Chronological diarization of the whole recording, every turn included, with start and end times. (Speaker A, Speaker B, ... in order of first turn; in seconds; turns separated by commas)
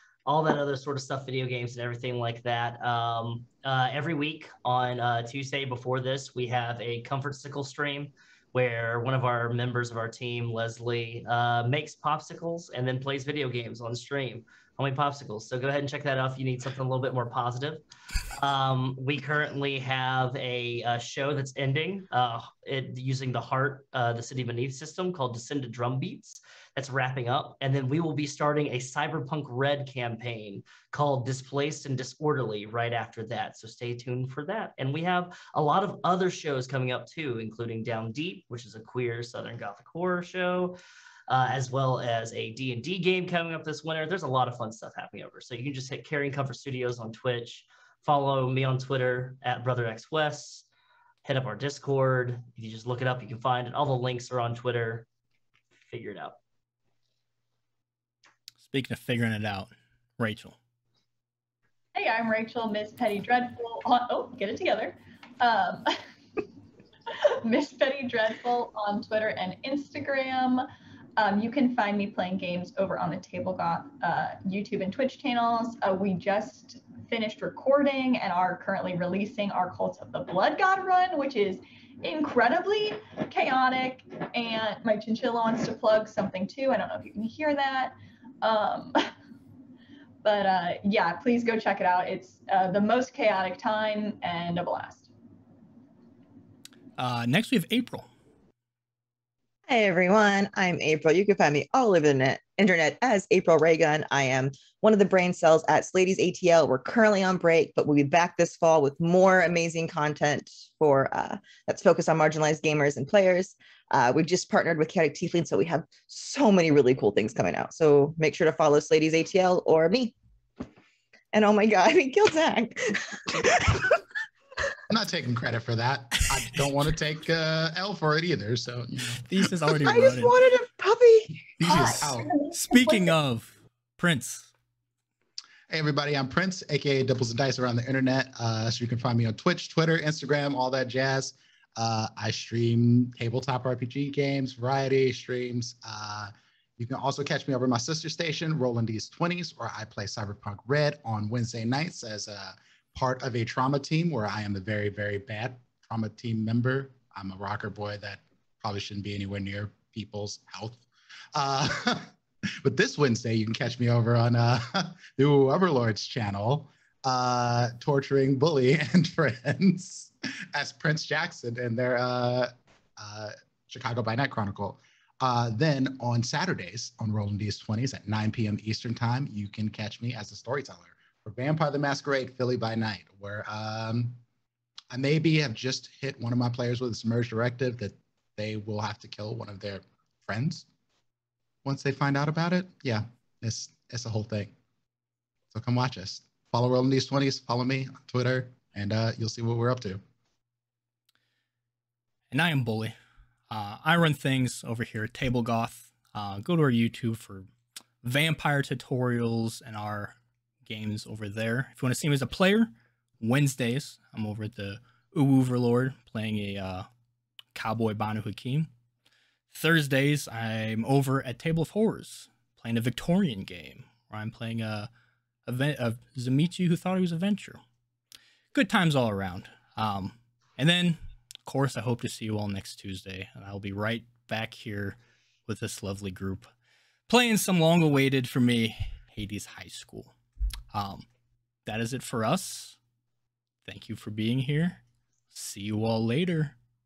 Speaker A: 0.3-50.7, Speaker A: 51.2-55.1, Speaker A: 55.9-56.4, Speaker B: 58.7-60.6, Speaker C: 62.0-65.9, Speaker C: 67.1-89.1, Speaker C: 90.2-95.1, Speaker B: 97.0-98.1, Speaker D: 99.7-120.1, Speaker D: 121.3-123.8, Speaker E: 124.9-130.0, Speaker B: 126.2-126.6, Speaker B: 129.2-130.3, Speaker D: 129.8-132.2, Speaker E: 131.6-132.3, Speaker B: 131.7-134.5, Speaker C: 132.1-133.1, Speaker E: 135.7-160.8, Speaker E: 161.3-162.1, Speaker E: 162.6-184.2, Speaker E: 184.9-190.7, Speaker E: 191.7-194.5, Speaker E: 195.5-200.0, Speaker B: 202.3-202.9, Speaker B: 203.5-207.5, Speaker B: 208.0-216.9, Speaker B: 217.6-218.7, Speaker B: 219.5-224.9, Speaker B: 225.5-227.6, Speaker B: 228.5-236.5, Speaker B: 237.1-240.1, Speaker B: 240.7-241.1, Speaker B: 241.7-242.8, Speaker B: 243.7-244.8, Speaker B: 245.3-246.6